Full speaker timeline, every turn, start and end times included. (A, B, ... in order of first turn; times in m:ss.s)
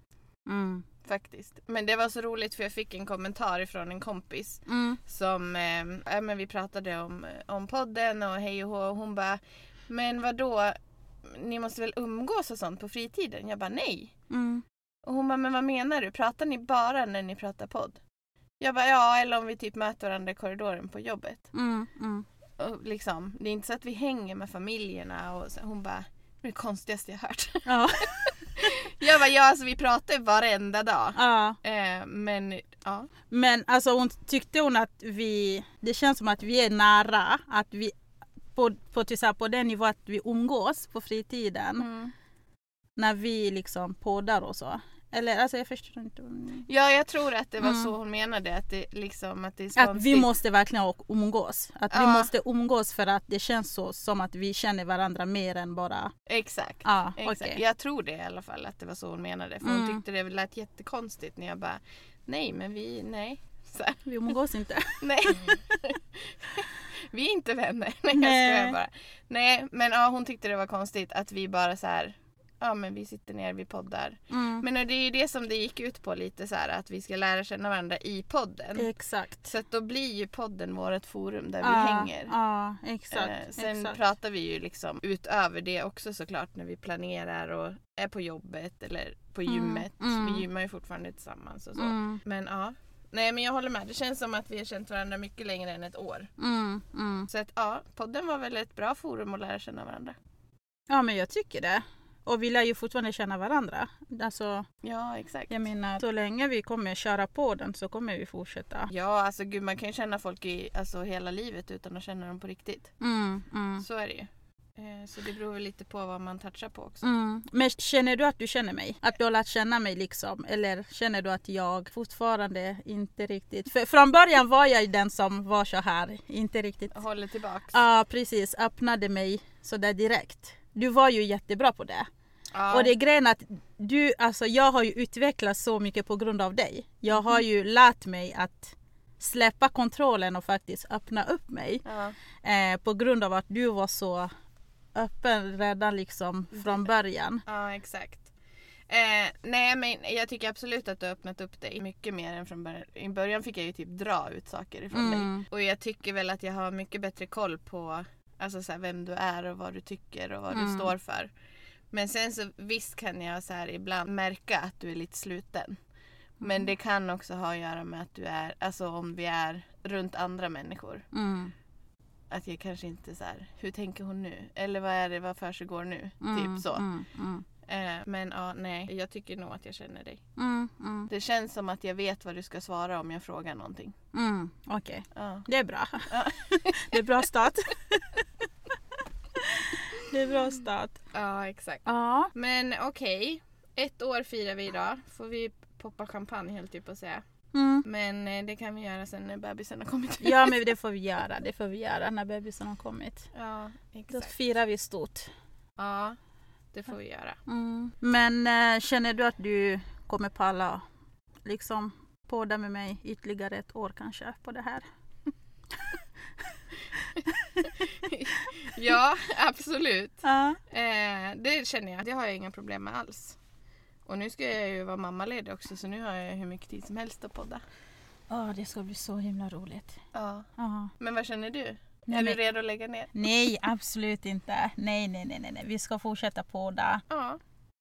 0:00.4-0:00.8 A
0:01.0-0:14.1 B
0:04.7-0:05.0 A
0:14.3-0:14.6 A
0:15.0-0:18.0 B
0:18.6-0:21.5 B
0:21.5-0:22.2 A
0:22.6-0:27.7 B
0:27.6-0:28.3 A
0:28.2-0:33.1 B
0:31.2-0:31.6 A
0:33.3-0:37.9 A
0:38.5-0:41.9 A
0:41.8-0:42.1 B
0:43.0-0:46.6 A
0:46.6-0:50.3 B
0:47.6-0:47.9 A
0:49.7-0:56.1 A
0:51.9-0:52.3 B
0:56.3-1:04.0 B
0:56.8-0:57.6 A
0:59.6-1:00.0 A
1:04.0-1:05.6 A
1:05.0-1:18.9 B
1:08.1-1:08.8 A
1:14.3-1:14.6 A
1:18.8-1:19.5 A
1:19.4-1:22.3 B
1:21.6-1:24.0 A
1:23.1-1:36.3 B
1:29.4-1:30.4 A
1:31.8-1:32.2 A
1:36.4-1:37.3 A
1:37.3-1:40.2 B
1:40.9-1:44.7 A
1:44.8-1:45.5 B
1:45.5-1:48.9 A
1:48.9-1:52.9 B
1:53.0-1:53.8 A
1:53.8-1:57.1 B
1:57.0-2:06.9 A
2:06.9-2:07.8 B
2:07.7-2:12.1 A
2:12.5-2:12.9 B
2:12.7-2:21.8 A
2:17.1-2:17.4 B
2:21.8-2:22.2 B
2:22.4-2:24.3 A
2:24.9-2:27.4 A
2:26.5-2:26.9 B
2:27.4-2:28.3 B
2:28.9-2:41.3 B
2:34.9-2:35.4 A
2:40.5-2:40.9 A
2:41.9-2:45.8 B
2:46.4-2:51.0 B
2:51.1-2:51.5 A
2:52.3-2:56.9 B
2:56.2-2:57.4 A
2:57.6-3:00.2 B
3:00.4-3:01.1 A
3:01.1-3:04.0 B
3:04.1-3:08.2 A
3:05.1-3:05.5 B
3:06.1-3:07.2 B
3:09.4-3:11.0 A
3:11.1-3:17.2 B
3:11.8-3:12.3 A
3:17.5-3:17.8 A
3:17.8-3:20.6 B
3:20.2-3:23.3 A
3:23.3-3:24.4 B
3:24.1-3:25.3 A
3:25.8-3:26.2 B
3:26.7-3:27.4 B
3:27.5-3:30.8 A
3:31.4-3:34.8 A
3:37.0-3:37.7 A
3:37.6-3:43.4 B
3:40.2-3:40.6 A
3:44.0-3:47.6 B
3:48.3-3:50.0 A
3:50.1-3:50.5 B
3:50.6-3:50.9 A
3:51.0-3:53.1 B
3:52.1-3:52.4 A
3:53.1-3:57.0 A
3:57.1-3:57.4 B